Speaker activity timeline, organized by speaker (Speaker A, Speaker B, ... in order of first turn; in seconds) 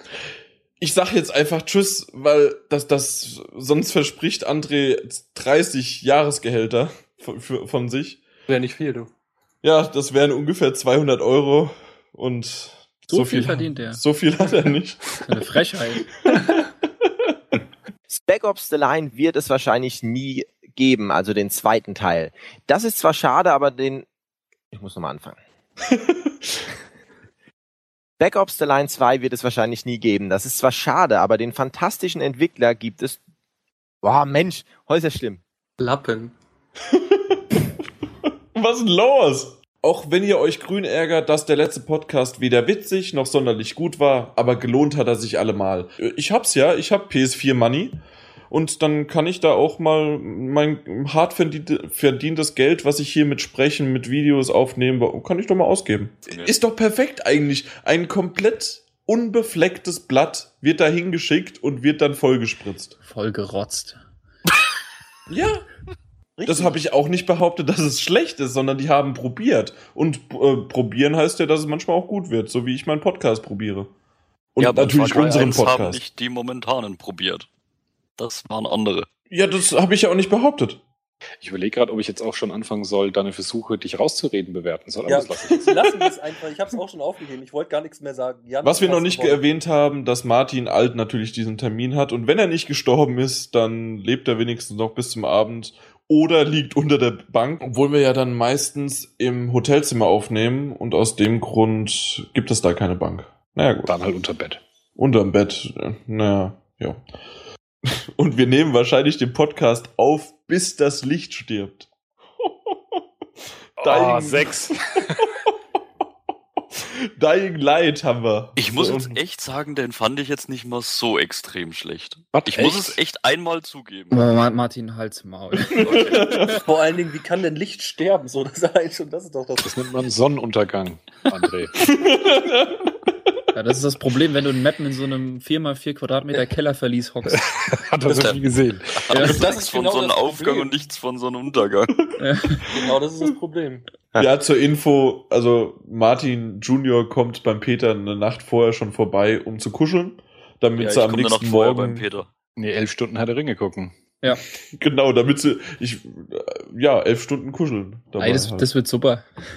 Speaker A: 0.8-8.2, 9.6-15.1, 36.9-37.4, 38.5-48.0, 48.5-63.0, 65.3-65.6, 66.4-73.9, 74.5-76.0, 79.3-80.8, 88.6-103.9, 105.0-107.0, 107.8-111.9, 113.8-114.7, 116.7-119.2, 125.8-126.5, 131.9-132.9, 144.1-152.1, 154.8-158.7
Speaker B: 8.5-9.1, 35.8-36.3, 85.0-89.4, 126.4-129.7, 139.2-140.7, 142.7-143.9
Speaker C: 13.1-14.0, 15.2-16.1, 63.0-64.0, 124.1-126.3, 133.5-137.4, 142.2-142.6, 158.2-159.2
Speaker D: 18.1-24.1, 24.7-25.4, 28.2-33.2, 34.0-35.4
Speaker E: 74.6-77.5, 78.2-79.1, 118.5-124.2, 139.1-141.9, 150.8-152.3
Speaker F: 81.4-85.8, 103.8-104.6, 113.8-114.8, 122.3-123.0, 129.6-131.7, 137.3-139.2, 152.6-153.9